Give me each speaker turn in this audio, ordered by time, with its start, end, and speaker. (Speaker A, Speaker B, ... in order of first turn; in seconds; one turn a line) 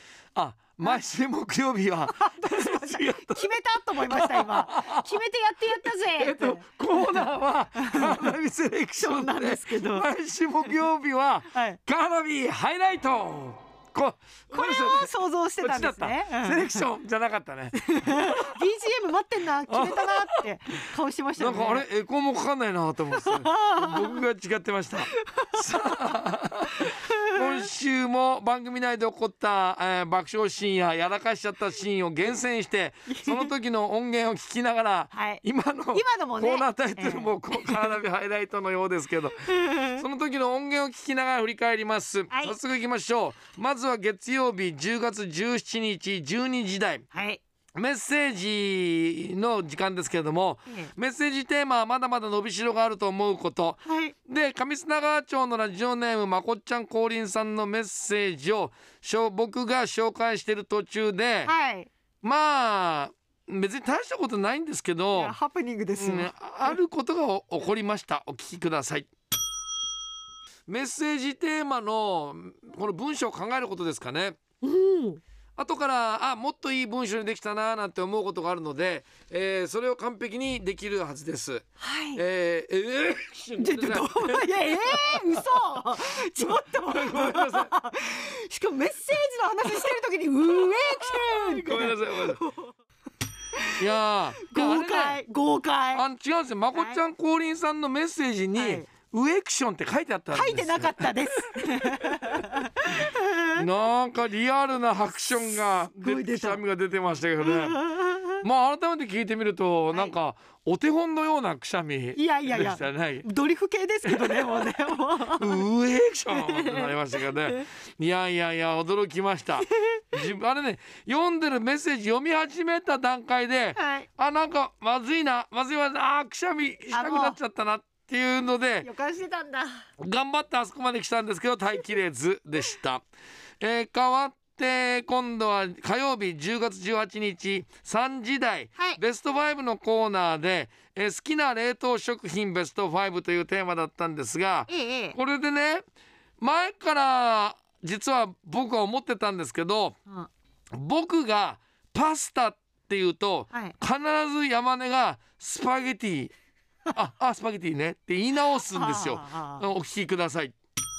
Speaker A: 0.3-3.4
Speaker B: 2.2-7.2
Speaker A: 4.1-5.0
Speaker A: 6.1-18.5
Speaker B: 7.8-8.3
Speaker B: 9.0-10.1
Speaker B: 11.5-11.8
Speaker B: 14.5-16.8
Speaker B: 17.8-21.9
Speaker A: 19.7-20.4
Speaker A: 21.4-47.0
Speaker B: 23.1-24.2
Speaker B: 25.1-25.6
Speaker B: 33.1-33.5
Speaker B: 35.1-38.0
Speaker B: 39.5-40.0
Speaker B: 42.3-42.6
Speaker B: 47.1-47.4
Speaker A: 47.8-61.5
Speaker B: 53.9-54.1
Speaker B: 61.5-61.9
Speaker A: 62.2-65.3
Speaker B: 65.1-66.8
Speaker A: 66.0-69.1
Speaker A: 70.7-74.4
Speaker B: 74.6-75.2
Speaker A: 75.6-85.4
Speaker B: 81.8-82.2
Speaker B: 83.6-92.7
Speaker A: 86.4-87.7
Speaker A: 91.5-92.4
Speaker A: 93.8-95.2
Speaker B: 94.4-96.0
Speaker A: 96.0-102.4
Speaker B: 96.7-97.0
Speaker B: 98.5-98.9
Speaker B: 100.3-103.6
Speaker A: 103.5-107.8
Speaker B: 105.7-106.6
Speaker B: 107.4-108.4
Speaker A: 108.4-113.2
Speaker B: 112.2-115.6
Speaker A: 114.1-114.7
Speaker A: 115.3-128.9
Speaker B: 116.3-117.6
Speaker B: 123.8-124.1
Speaker B: 126.9-127.4
Speaker B: 128.8-129.8
Speaker A: 130.0-133.0
Speaker A: 133.6-145.8
Speaker B: 144.7-145.2
Speaker A: 146.4-150.0
Speaker A: 150.8-156.3
Speaker A: 156.9-160.6
Speaker B: 158.6-159.6